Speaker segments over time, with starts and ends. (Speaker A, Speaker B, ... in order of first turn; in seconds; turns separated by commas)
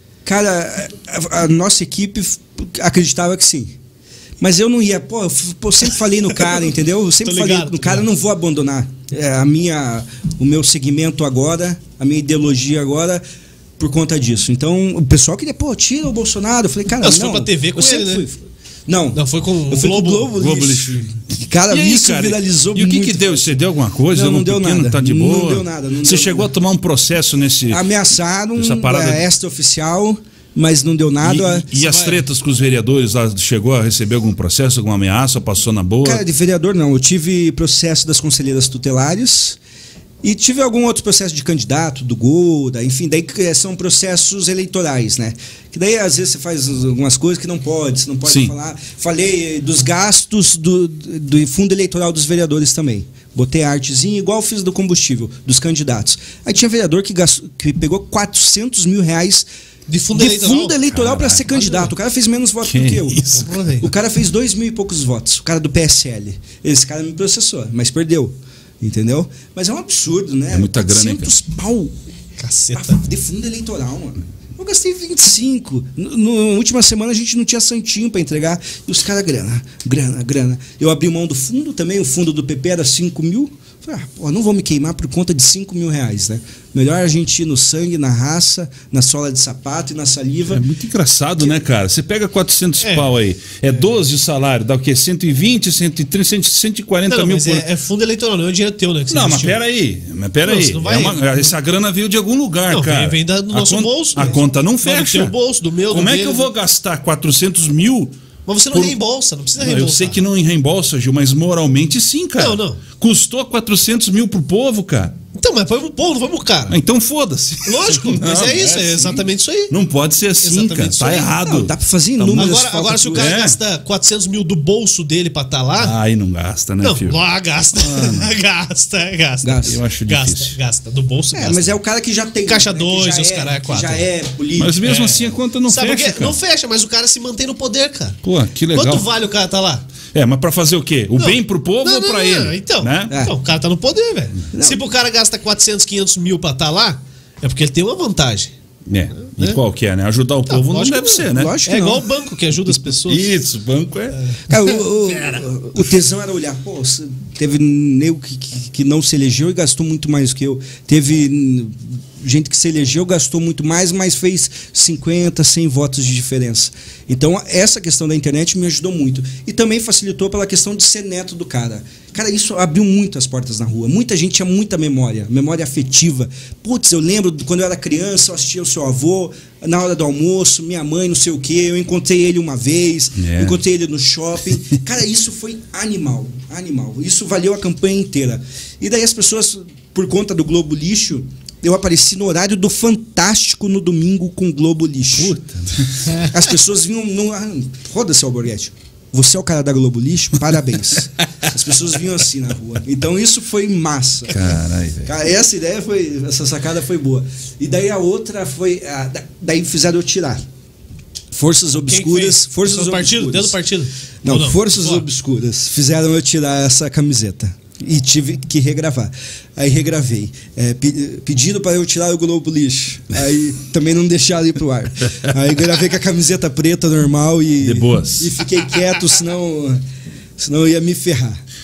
Speaker A: 0.2-3.7, Speaker A: 4.4-13.2, Speaker B: 7.2-8.1, Speaker A: 13.8-26.5, Speaker B: 17.0-18.3, Speaker B: 19.1-20.3, Speaker C: 20.3-27.8, Speaker A: 27.7-31.6, Speaker C: 28.6-29.2, Speaker C: 31.2-36.2, Speaker B: 31.7-32.2, Speaker A: 36.0-39.6, Speaker A: 40.2-59.5, Speaker C: 48.2-48.5, Speaker B: 59.9-60.8, Speaker A: 60.1-71.9, Speaker C: 60.9-61.7, Speaker B: 61.6-61.9, Speaker C: 62.6-63.4, Speaker B: 63.2-63.9, Speaker C: 70.5-71.3, Speaker B: 72.4-73.0, Speaker A: 72.7-90.6, Speaker C: 90.5-97.6, Speaker B: 92.8-93.1, Speaker B: 93.7-94.0, Speaker B: 97.1-99.6, Speaker C: 99.1-105.3, Speaker B: 100.4-101.5, Speaker B: 102.7-106.5, Speaker C: 105.9-108.2, Speaker B: 108.5-110.2, Speaker C: 108.7-109.0, Speaker C: 109.6-115.2, Speaker B: 112.4-112.8, Speaker B: 115.3-116.8, Speaker C: 116.7-122.6, Speaker B: 117.6-119.7, Speaker B: 120.4-121.3, Speaker A: 121.3-123.3, Speaker B: 122.2-125.9, Speaker C: 123.1-123.6, Speaker C: 125.8-127.2, Speaker B: 126.8-131.8, Speaker C: 127.8-128.3, Speaker A: 129.4-129.8, Speaker C: 129.7-130.6, Speaker A: 131.3-134.9, Speaker B: 132.4-134.1, Speaker C: 134.6-136.3, Speaker B: 134.8-138.2, Speaker C: 138.2-139.1, Speaker B: 138.7-139.9, Speaker C: 140.1-143.1, Speaker B: 141.2-148.5, Speaker A: 143.1-143.3, Speaker A: 144.5-144.8, Speaker C: 148.9-151.6, Speaker B: 149.2-149.6, Speaker B: 150.5-153.3, Speaker A: 151.3-152.1, Speaker C: 153.1-154.2, Speaker B: 154.1-154.4, Speaker A: 154.5-195.3, Speaker C: 183.2-183.6, Speaker C: 195.2-196.3, Speaker A: 196.1-204.5, Speaker C: 204.3-205.1, Speaker A: 205.1-210.4, Speaker A: 211.3-213.6, Speaker B: 211.9-215.1, Speaker A: 214.2-229.8, Speaker C: 227.6-228.4, Speaker A: 230.4-231.4